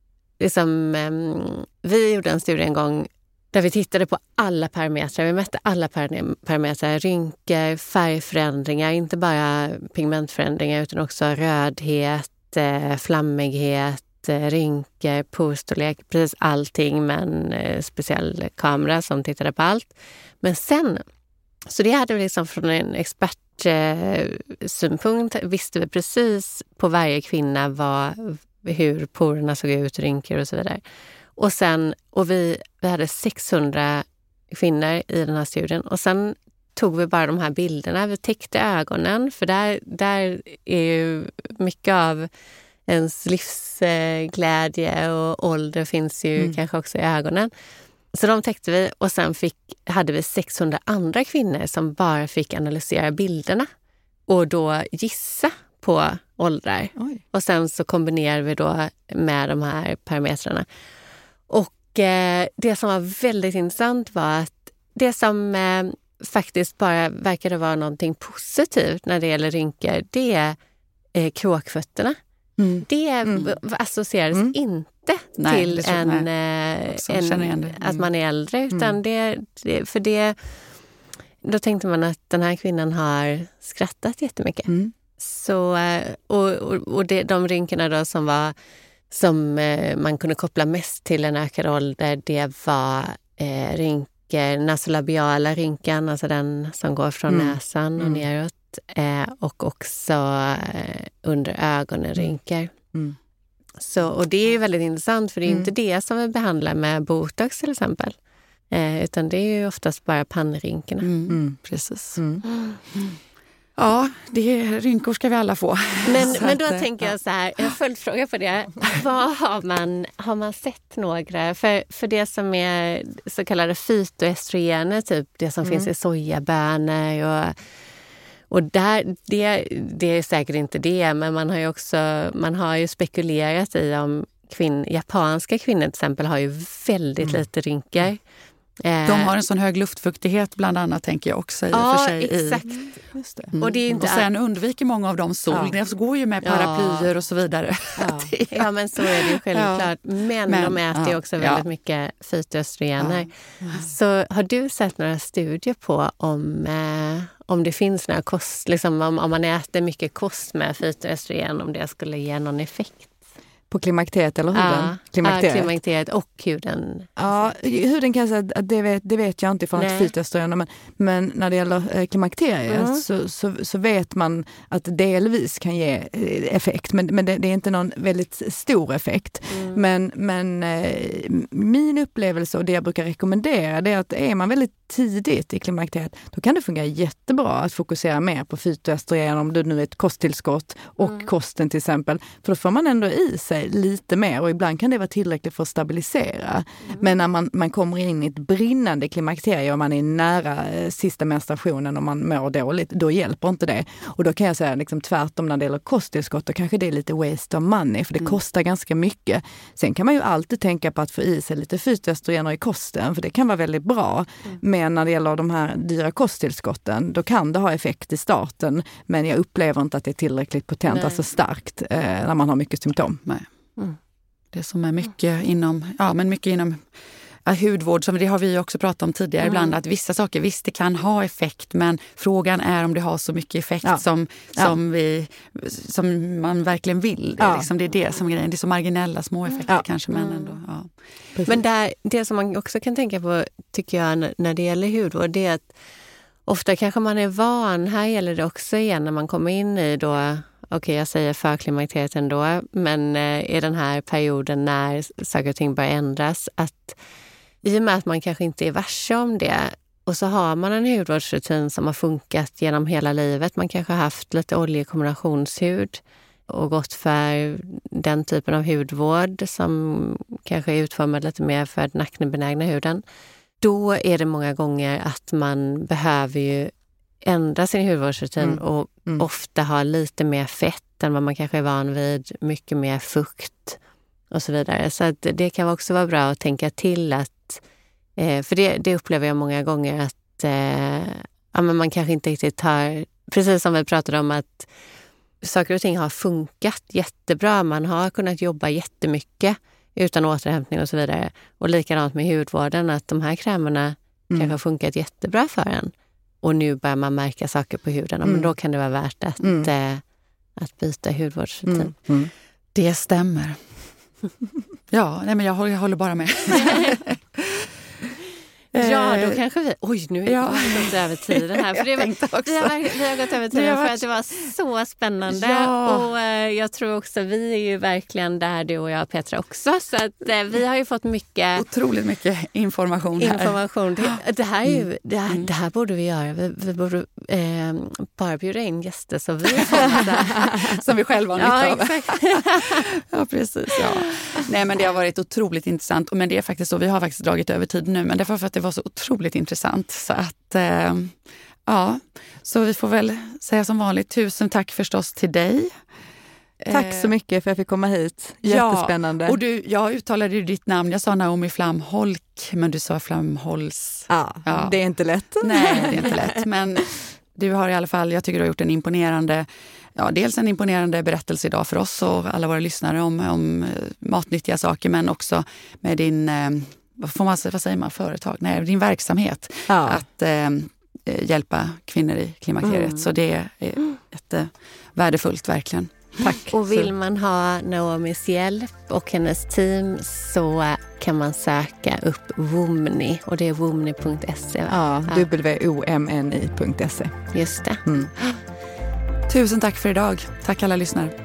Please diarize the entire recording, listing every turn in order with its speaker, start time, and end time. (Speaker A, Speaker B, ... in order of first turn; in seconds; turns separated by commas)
Speaker A: 0.4-21.0, Speaker A: 21.6-30.8, Speaker A: 31.4-42.3, Speaker A: 42.9-47.5, Speaker A: 48.1-53.7, Speaker A: 54.3-60.6, Speaker A: 61.5-70.6, Speaker A: 71.1-72.2, Speaker B: 72.6-73.5, Speaker A: 72.8-80.5, Speaker C: 75.4-76.3, Speaker C: 76.9-78.0, Speaker A: 81.4-88.5, Speaker B: 84.7-84.9, Speaker A: 89.1-102.7, Speaker B: 97.3-98.2, Speaker A: 103.8-108.2, Speaker B: 105.5-105.7, Speaker A: 108.7-111.1, Speaker C: 111.0-112.2, Speaker B: 111.3-111.6, Speaker B: 112.2-112.4, Speaker A: 112.5-112.8, Speaker C: 113.8-117.1, Speaker A: 116.0-127.6, Speaker B: 125.6-125.9, Speaker A: 128.5-138.2, Speaker A: 138.8-139.3, Speaker C: 139.1-142.7, Speaker A: 141.7-142.9, Speaker B: 142.8-143.5, Speaker C: 143.5-151.6, Speaker A: 143.6-144.3, Speaker A: 146.4-147.1, Speaker B: 148.0-148.3, Speaker A: 148.5-163.2, Speaker B: 163.7-165.7, Speaker A: 164.5-167.5, Speaker B: 167.2-223.2, Speaker A: 169.8-170.1, Speaker A: 172.7-173.0, Speaker A: 179.5-179.8, Speaker A: 220.9-221.2, Speaker C: 224.5-226.9, Speaker C: 227.4-240.9, Speaker A: 229.5-229.7, Speaker B: 237.4-237.7, Speaker A: 240.1-240.6, Speaker B: 241.3-241.6, Speaker A: 241.5-245.7, Speaker A: 246.4-257.0, Speaker A: 257.6-273.0, Speaker A: 273.6-283.8, Speaker B: 278.4-279.2, Speaker A: 284.3-287.6, Speaker A: 288.1-294.7, Speaker A: 295.4-310.0, Speaker B: 304.3-304.6, Speaker B: 308.2-308.5, Speaker B: 309.4-309.7, Speaker A: 310.6-311.9, Speaker B: 311.6-312.3, Speaker C: 312.7-313.6, Speaker C: 314.9-317.7, Speaker A: 316.5-317.0, Speaker C: 318.7-319.4, Speaker A: 318.8-331.6, Speaker C: 320.2-324.1, Speaker C: 325.3-326.1, Speaker C: 331.6-334.2, Speaker A: 333.2-340.5, Speaker C: 339.6-355.8, Speaker A: 341.4-342.9, Speaker C: 356.6-357.1, Speaker B: 356.7-359.4, Speaker C: 358.4-364.8, Speaker B: 364.1-366.4, Speaker C: 365.4-386.9, Speaker B: 379.7-380.0, Speaker A: 382.6-383.1, Speaker B: 386.2-386.6, Speaker A: 386.5-395.3, Speaker B: 394.7-397.3, Speaker A: 397.3-398.4, Speaker B: 397.8-398.1, Speaker C: 399.3-401.1